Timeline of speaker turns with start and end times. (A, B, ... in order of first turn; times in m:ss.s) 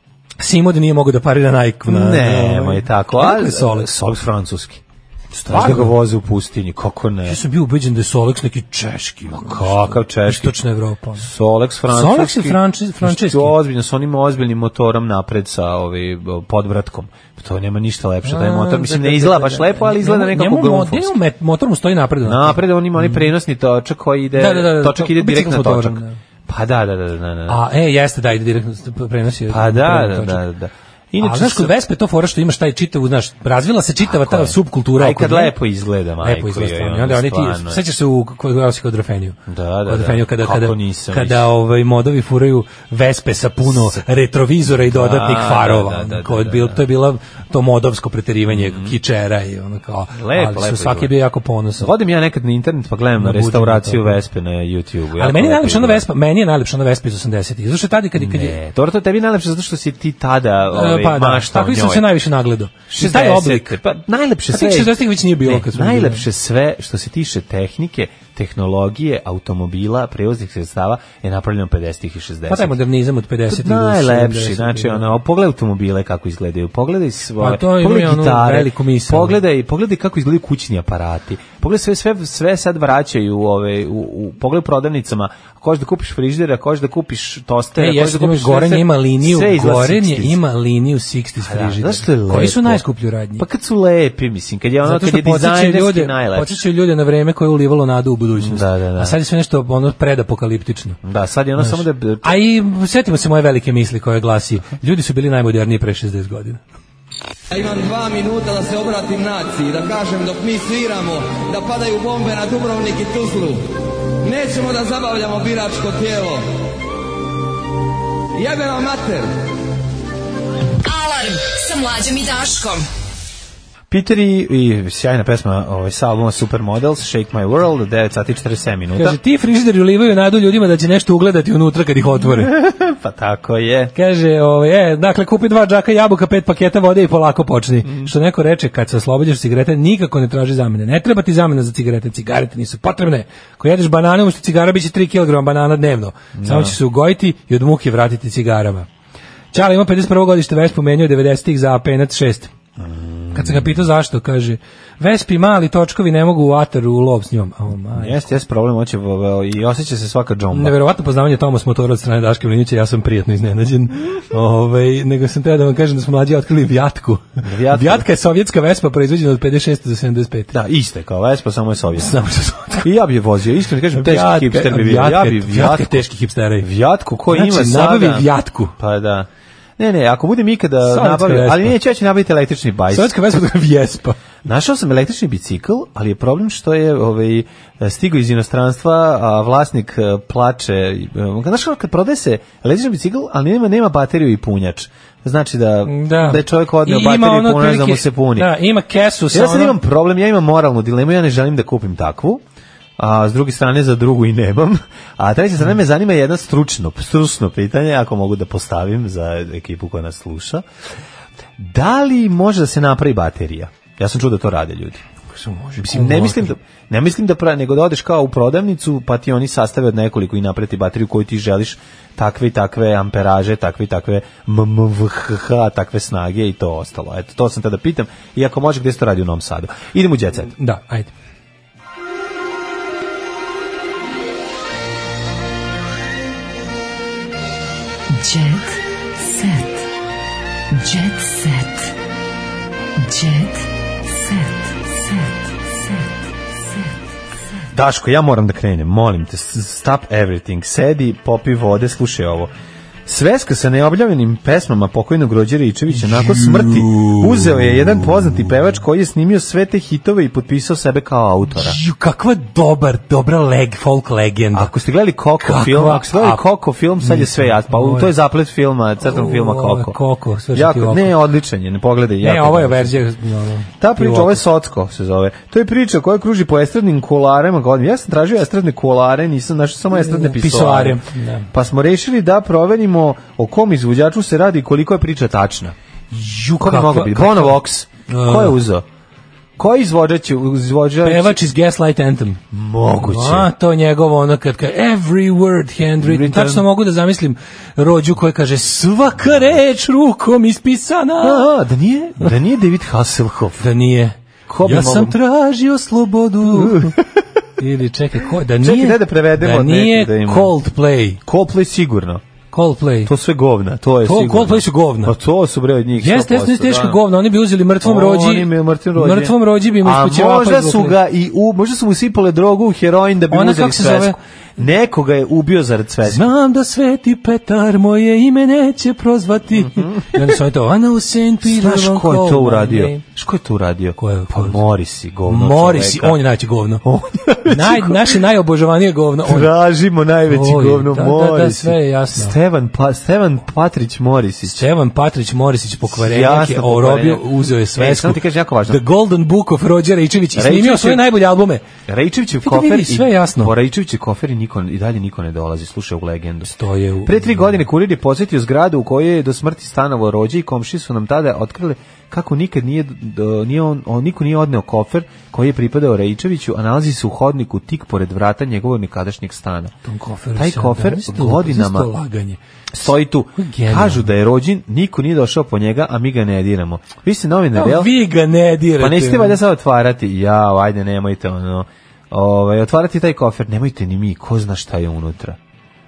0:00.4-0:03.9 A
0:01.9-0:04.8 B
0:05.3-0:06.0 A
0:05.5-0:07.4 B
0:07.2-0:11.3 A
0:09.3-0:10.6 B
0:11.2-0:21.2 B
0:11.9-0:13.6 A
0:18.2-0:23.3 A
0:22.2-0:27.6 B
0:24.4-0:26.2 A
0:27.5-0:30.4 A
0:29.5-0:31.7 B
0:31.2-0:35.6 A
0:34.0-0:37.8 B
0:36.2-0:51.9 A
0:39.5-0:41.5 B
0:43.6-0:44.0 B
0:44.9-0:46.8 B
0:48.5-0:49.0 B
0:50.1-0:51.1 B
0:51.8-0:56.1 B
0:53.2-0:54.2 A
0:55.2-0:58.6 A
0:58.2-1:02.1 B
1:00.7-1:03.8 A
1:02.9-1:12.8 B
1:04.5-1:06.3 A
1:12.5-1:15.0 A
1:13.5-1:30.4 B
1:17.4-1:19.4 A
1:27.8-1:33.4 A
1:31.4-1:32.8 B
1:33.4-1:36.5 B
1:34.8-1:41.0 A
1:38.4-1:39.2 B
1:41.0-1:42.4 B
1:41.6-1:46.6 A
1:47.5-1:56.4 C
1:58.4-1:59.3 C
2:00.8-2:02.9 D
2:03.9-2:09.2 B
2:09.0-2:12.6 A
2:12.3-2:13.9 B
2:14.0-2:28.9 A
2:17.8-2:18.1 B
2:26.4-2:26.8 B
2:29.5-2:32.5 A
2:32.8-2:33.8 B
2:33.3-2:38.2 A
2:38.0-2:40.8 B
2:40.5-2:50.6 A
2:47.4-2:48.1 B
2:50.5-2:52.2 B
2:52.0-2:52.9 A
2:52.8-2:56.1 B
2:53.9-2:56.7 A
2:56.6-3:03.2 B
2:57.3-2:58.7 A
3:00.8-3:01.8 A
3:02.9-3:04.2 A
3:04.4-3:18.6 B
3:15.9-3:19.8 A
3:19.3-3:22.4 B
3:23.0-3:30.7 B
3:31.6-3:35.0 B
3:35.3-3:36.5 A
3:35.8-3:50.5 B
3:50.6-3:51.1 A
3:58.1-3:59.8 D
4:00.7-4:01.9 D
4:03.0-4:06.1 D
4:07.7-4:12.5 B
4:13.1-4:21.8 B
4:15.9-4:17.6 A
4:21.5-4:24.7 A
4:24.5-4:30.0 B
4:25.4-4:26.4 A
4:27.0-4:28.1 A
4:29.0-4:31.2 A
4:30.5-4:33.0 B
4:32.2-4:34.4 A
4:33.8-4:45.8 B
4:39.9-4:41.5 A
4:46.1-4:48.6 A
4:46.6-4:48.9 B
4:49.6-4:51.4 B
4:51.0-4:52.4 A
4:52.5-4:53.5 B
4:53.0-5:01.5 A
4:56.0-4:56.7 B
5:01.2-5:03.7 B
5:03.6-5:07.0 A
5:04.5-5:05.2 B
5:06.4-5:07.2 B
5:07.6-5:11.2 A
5:08.6-5:10.6 B
5:11.2-5:12.2 B
5:12.5-5:13.1 A
5:13.0-5:17.0 B
5:14.0-5:15.1 A
5:16.0-5:21.0 A
5:17.8-5:26.3 B
5:23.3-5:24.2 A
5:26.1-5:33.0 A
5:29.5-5:30.4 B
5:31.4-5:36.2 B
5:34.0-5:34.6 A
5:35.3-5:36.8 A
5:36.8-5:38.2 B
5:37.4-5:39.5 A
5:39.2-5:44.6 B
5:40.3-5:42.4 A
5:44.4-5:51.6 A
5:45.9-5:48.8 B
5:50.4-5:51.1 B
5:51.9-6:09.7 B
5:52.4-5:53.5 A
5:56.4-5:57.6 A
6:09.8-6:12.4 A
6:10.4-6:11.9 B
6:12.7-6:17.9 B
6:13.4-6:14.1 A
6:17.6-6:19.4 A
6:18.8-6:25.4 B